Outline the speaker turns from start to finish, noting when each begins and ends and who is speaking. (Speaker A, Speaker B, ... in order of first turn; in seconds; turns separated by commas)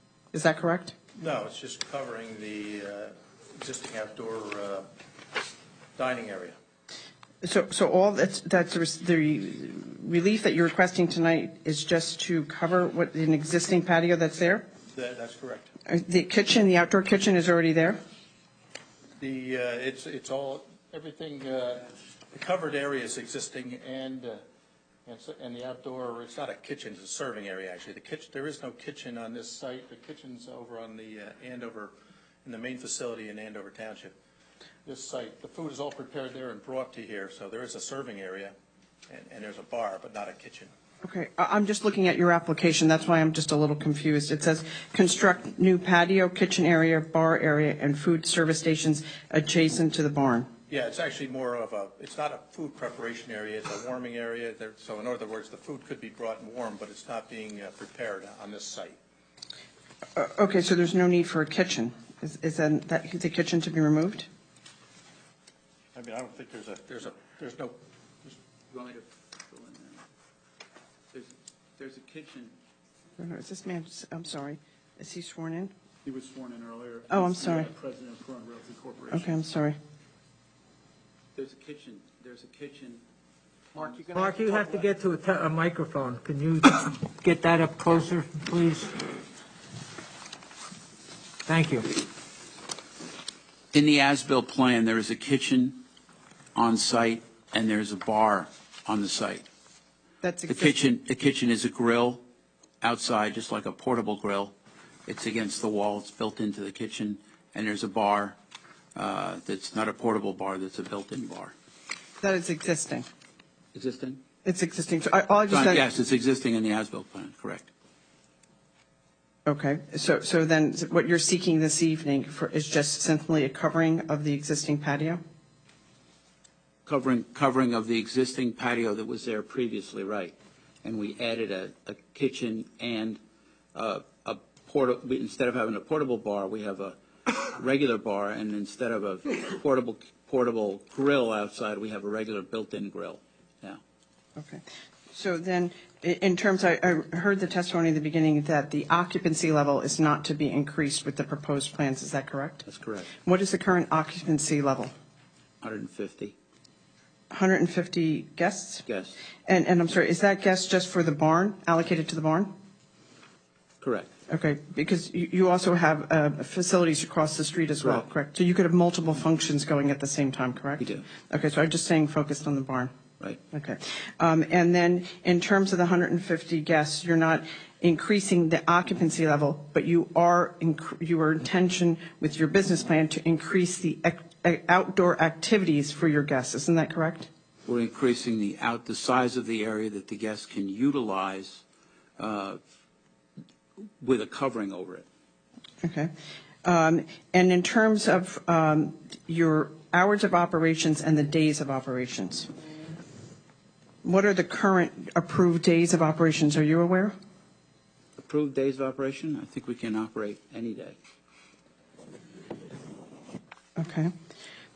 Speaker A: 0.3-0.9, Speaker B: 1.2-4.9, Speaker B: 6.0-6.6, Speaker A: 7.4-14.7, Speaker B: 14.9-15.7, Speaker A: 15.9-18.0, Speaker B: 19.2-24.4, Speaker B: 25.1-31.9, Speaker B: 32.4-34.1, Speaker B: 34.9-38.5, Speaker B: 39.1-40.7, Speaker A: 41.0-50.5, Speaker B: 50.7-59.0, Speaker A: 60.1-64.3, Speaker B: 65.9-68.4, Speaker C: 68.7-70.0, Speaker C: 71.1-72.5, Speaker A: 73.2-75.7, Speaker D: 76.0-79.4, Speaker A: 77.1-77.7, Speaker A: 79.1-79.8, Speaker C: 81.3-83.0, Speaker C: 83.7-84.6, Speaker E: 83.8-88.9, Speaker E: 91.5-92.0, Speaker C: 93.7-95.8, Speaker C: 96.5-99.5, Speaker A: 100.2-100.7, Speaker C: 100.5-102.2, Speaker C: 102.8-104.5, Speaker C: 105.1-108.3, Speaker C: 108.9-111.5, Speaker A: 112.2-113.1, Speaker C: 113.7-114.2, Speaker A: 114.4-115.8, Speaker C: 115.5-117.7, Speaker A: 119.5-125.2, Speaker C: 126.8-133.2, Speaker C: 133.7-143.8, Speaker A: 144.4-152.6, Speaker C: 152.6-153.1, Speaker A: 153.2-154.9, Speaker C: 155.6-156.3, Speaker A: 157.3-158.9, Speaker C: 158.8-159.2, Speaker A: 159.4-162.5, Speaker C: 163.8-164.1, Speaker A: 164.3-172.9, Speaker C: 167.8-168.1, Speaker A: 173.5-187.3, Speaker C: 187.6-191.6, Speaker C: 192.2-192.6, Speaker C: 193.8-195.1, Speaker A: 195.8-196.1, Speaker A: 196.6-202.5, Speaker A: 204.0-207.1, Speaker C: 208.2-211.0, Speaker A: 213.8-214.1